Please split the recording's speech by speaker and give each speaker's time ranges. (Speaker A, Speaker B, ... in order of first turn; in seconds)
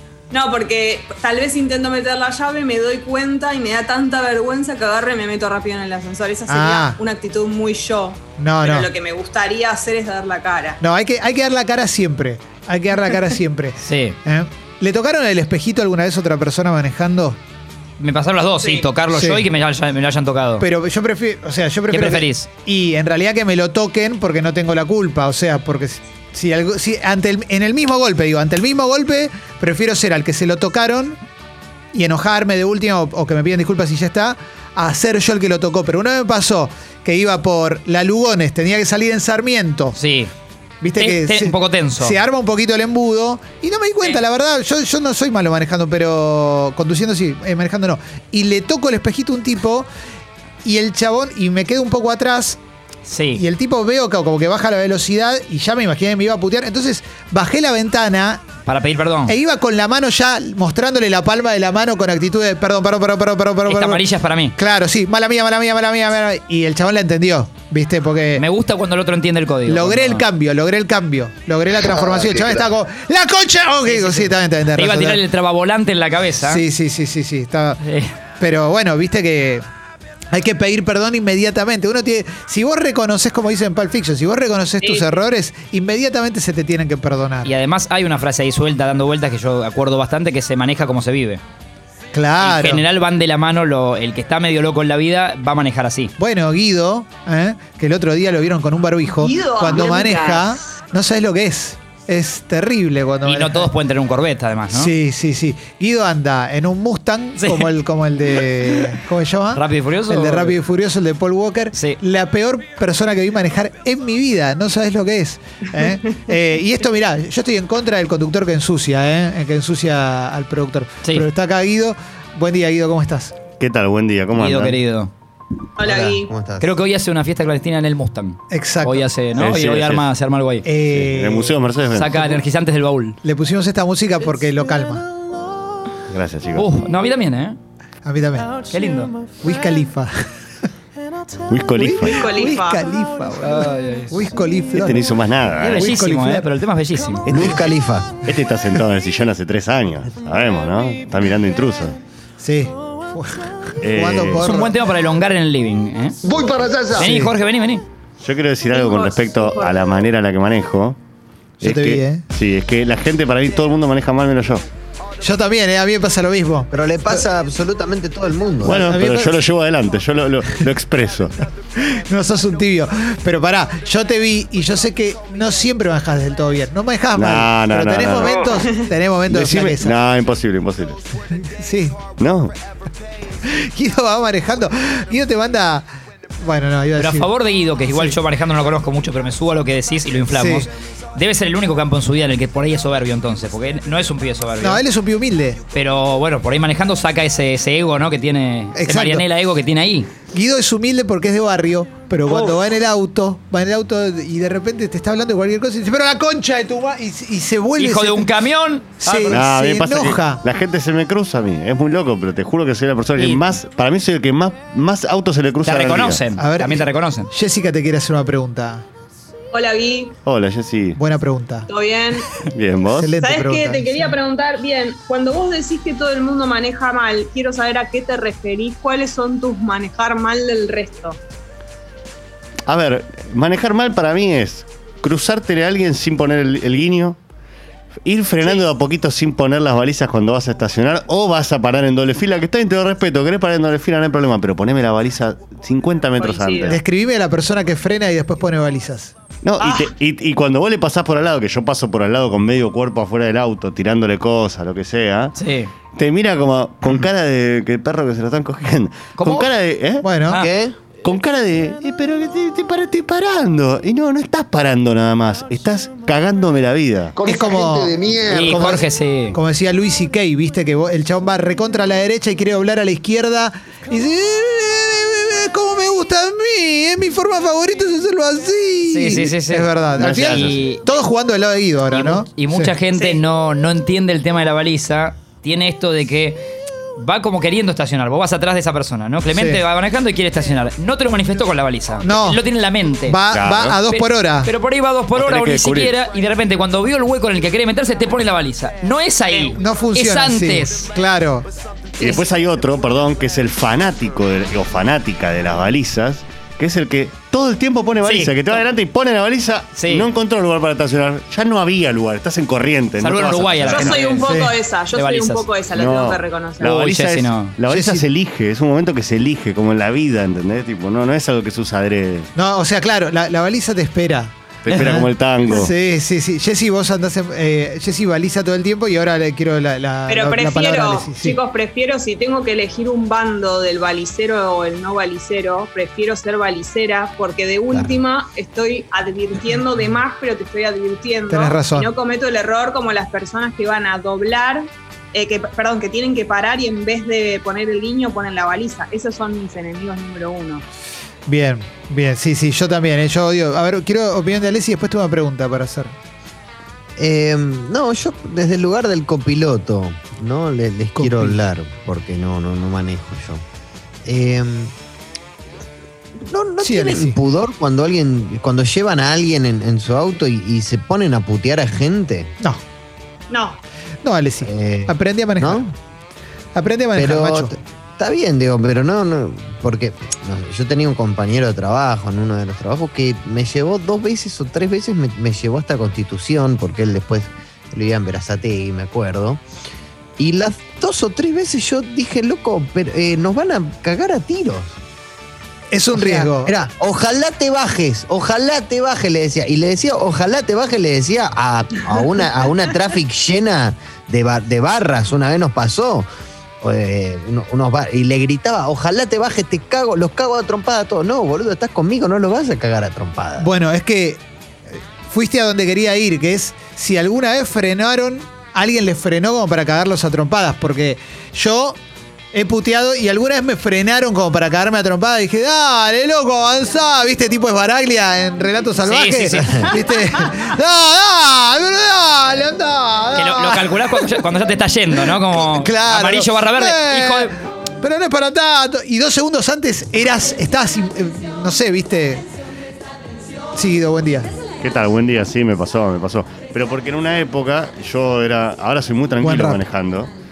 Speaker A: 0.3-10.8, 18.6-18.9, 84.8-85.1, 99.1-100.6, 125.8-126.3, 142.1-142.9, 158.7-159.8, 219.5-220.2, 221.7-222.3, 223.2-231.2, 246.2-246.8, 249.6-249.9, 313.7-316.7, 330.1-350.6, 373.3-373.6
Speaker B: 6.5-7.0, 8.4-8.9, 10.8-17.4, 19.1-19.5, 20.6-31.2, 31.9-40.0, 40.8-49.9, 50.6-52.6, 53.3-58.5, 59.3-64.0, 64.6-68.4, 69.7-75.2, 76.4-77.8, 78.4-79.6, 80.3-87.5, 92.1-92.8, 96.2-103.7, 104.7-123.4, 128.5-129.1, 130.7-131.6, 133.2-135.1, 138.0-138.6, 139.4-140.3, 141.8-145.1, 145.8-146.5, 152.4-154.8, 157.0-157.3, 161.6-162.2, 165.2-167.3, 168.7-169.4, 171.8-180.0, 181.3-182.1, 183.4-185.9, 186.4-187.3, 187.9-188.2, 190.3-190.7, 194.6-195.6, 198.8-199.3, 200.3-208.3, 209.0-210.4, 216.4-218.8, 221.0-221.7, 222.9-224.2, 246.7-249.1, 260.0-260.5, 267.2-282.7, 289.3-289.6, 292.0-292.4, 293.1-294.5, 299.6-301.5, 314.3-314.5, 317.7-318.1, 322.4-331.4, 341.3-341.9, 351.3-355.9, 361.0-361.4, 366.6-367.2, 374.0-375.7, 376.6-377.6, 395.7-396.6, 413.4-421.8, 422.3-434.3, 434.9-442.2, 443.5-444.3, 449.2-449.6
Speaker C: 13.8-14.2, 18.0-20.7, 21.9-22.5, 40.0-40.3, 41.0-42.2, 53.1-53.4, 58.7-59.4, 63.7-64.6, 68.4-70.2, 73.9-76.6, 77.8-78.2, 87.5-91.4, 92.4-96.1, 103.2-104.9, 107.4-107.7, 109.5-110.6, 111.7-112.0, 124.4-125.1, 126.6-130.7, 131.9-133.2, 136.6-137.6, 138.7-139.1, 143.4-144.2, 145.6-147.3, 154.4-156.2, 156.9-157.8, 187.0-194.8, 195.7-200.1, 202.3-202.5, 207.8-209.4, 213.2-213.4, 215.6-217.3, 255.4-255.7, 259.2-259.5, 268.3-269.4, 278.9-280.8, 281.9-293.2, 293.9-300.9, 308.0-308.6, 309.8-310.1, 313.0-314.3, 314.9-315.4, 316.6-317.6, 428.8-429.7, 433.1-437.4
Speaker D: 123.6-124.8, 129.4-130.1, 130.9-132.4, 136.1-136.7, 141.5-142.2, 144.8-145.9, 147.3-147.7, 148.2-152.0, 153.8-154.5, 158.2-161.0, 161.6-164.6, 168.7-171.4, 177.2-178.7, 179.3-181.0, 182.2-182.5, 209.3-216.3, 220.3-221.0, 222.4-223.1, 232.7-237.2, 238.1-246.8, 249.4-255.3, 255.9-260.1, 261.0-267.1, 280.0-280.6, 293.3-293.8, 295.1-295.9, 302.0-314.1, 315.7-322.3, 324.6-325.7, 444.6-450.1
Speaker E: 125.8-126.7, 147.3-148.2, 166.7-168.9, 260.3-260.8, 357.0-363.4, 364.1-364.7, 366.3-372.3, 374.4-375.6, 377.0-389.4, 390.2-394.8, 395.9-406.1, 406.6-413.5
Speaker F: 156.2-157.2, 267.2-268.8